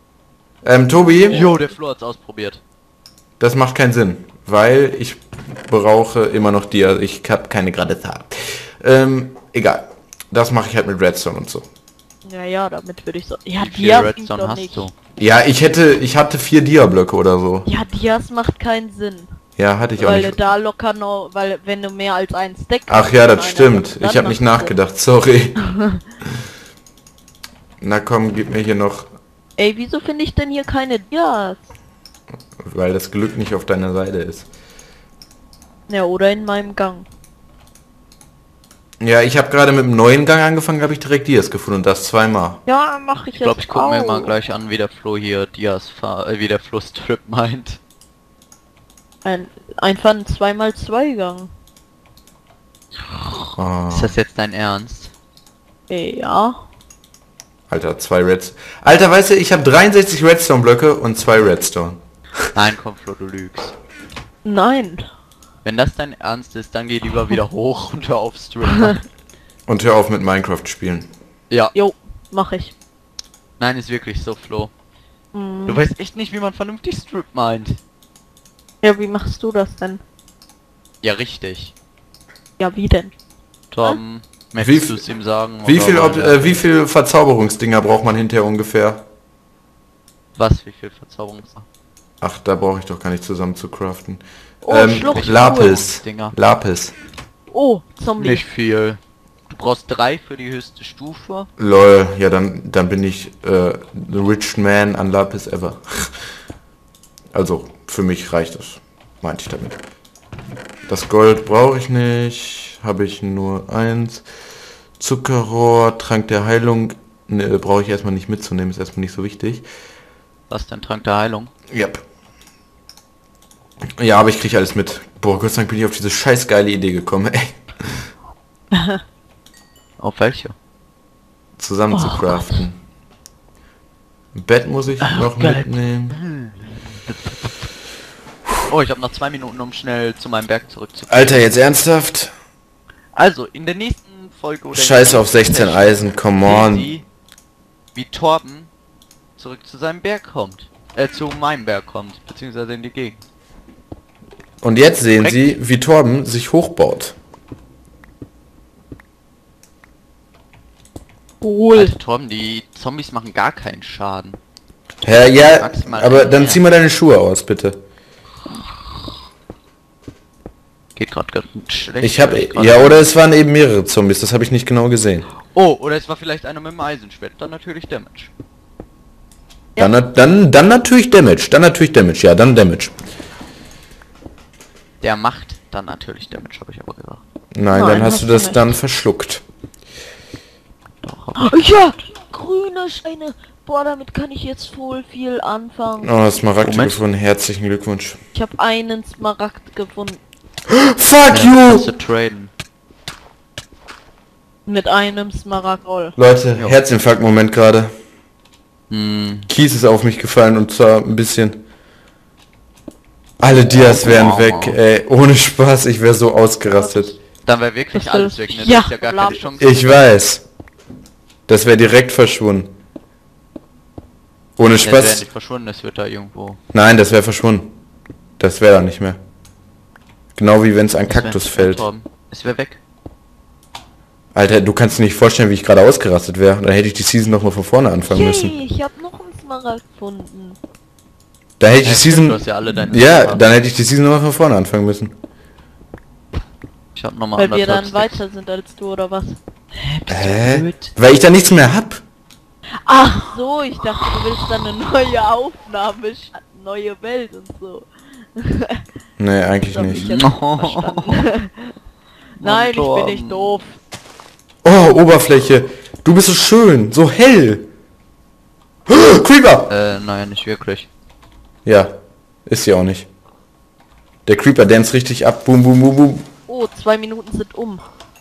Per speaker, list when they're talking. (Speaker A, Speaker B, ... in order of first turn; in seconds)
Speaker A: 0.6-1.5, 3.4-11.7, 15.2-17.7, 19.6-20.4, 22.9-25.6, 27.8-29.1, 32.6-34.5, 39.0-42.6, 53.6-54.2, 57.7-62.0, 69.7-71.1, 84.6-85.0, 85.6-89.0, 92.2-96.9, 101.6-106.2, 107.3-109.8, 110.9-114.2, 115.0-119.7, 121.7-122.0, 124.0-128.1, 131.6-132.8, 134.3-136.2, 141.1-142.3, 144.7-146.9, 154.6-157.2, 165.0-167.8, 172.0-175.3, 179.8-182.9, 187.6-189.4, 196.0-198.2, 200.7-201.9, 206.2-207.9, 209.5-211.6, 213.4-217.2, 219.6-220.4, 221.5-222.7, 224.6-225.3, 226.7-227.7, 228.4-229.2, 230.4-231.9, 234.3-238.6, 241.6-245.1, 250.1-252.0, 259.2-260.1, 264.6-267.7, 268.9-269.7, 271.6-271.9, 272.5-273.1, 274.3-276.3
Speaker B: 1.2-2.6, 13.6-14.9, 43.3-47.8, 53.1-55.1, 62.5-63.7, 65.6-69.0, 73.6-74.7, 75.7-77.8, 81.0-81.7, 83.7-86.6, 90.3-91.7, 95.1-96.3, 98.2-101.5, 120.5-121.5, 130.0-130.6, 136.1-137.5, 138.7-141.4, 143.2-147.1, 147.9-148.7, 149.4-153.2, 155.2-155.6, 161.7-164.4, 165.3-166.6, 171.0-173.1, 175.5-178.3, 185.0-187.2, 191.0-191.8, 196.6-197.0, 201.3-202.5, 208.9-209.5, 213.5-214.8, 217.4-219.8, 224.8-226.6, 231.1-232.8, 241.8-243.6, 247.0-248.2, 249.8-250.9, 260.0-261.2, 262.4-263.6, 269.7-270.9
Speaker C: 12.2-14.9, 17.6-19.4, 20.0-24.8, 25.6-26.0, 29.6-31.7, 35.9-37.1, 42.7-44.4, 49.2-51.5, 55.9-56.6, 64.5-65.1, 71.7-72.7, 75.3-75.8, 78.8-80.0, 82.6-83.2, 94.6-95.8, 97.5-98.4, 128.7-129.0, 131.9-132.6, 161.4-161.9, 187.7-188.8, 191.4-196.2, 198.3-200.2, 204.7-206.2, 217.9-219.5, 238.1-240.6, 247.4-249.4, 252.8-258.9, 259.6-261.7, 262.4-263.8, 276.5-277.9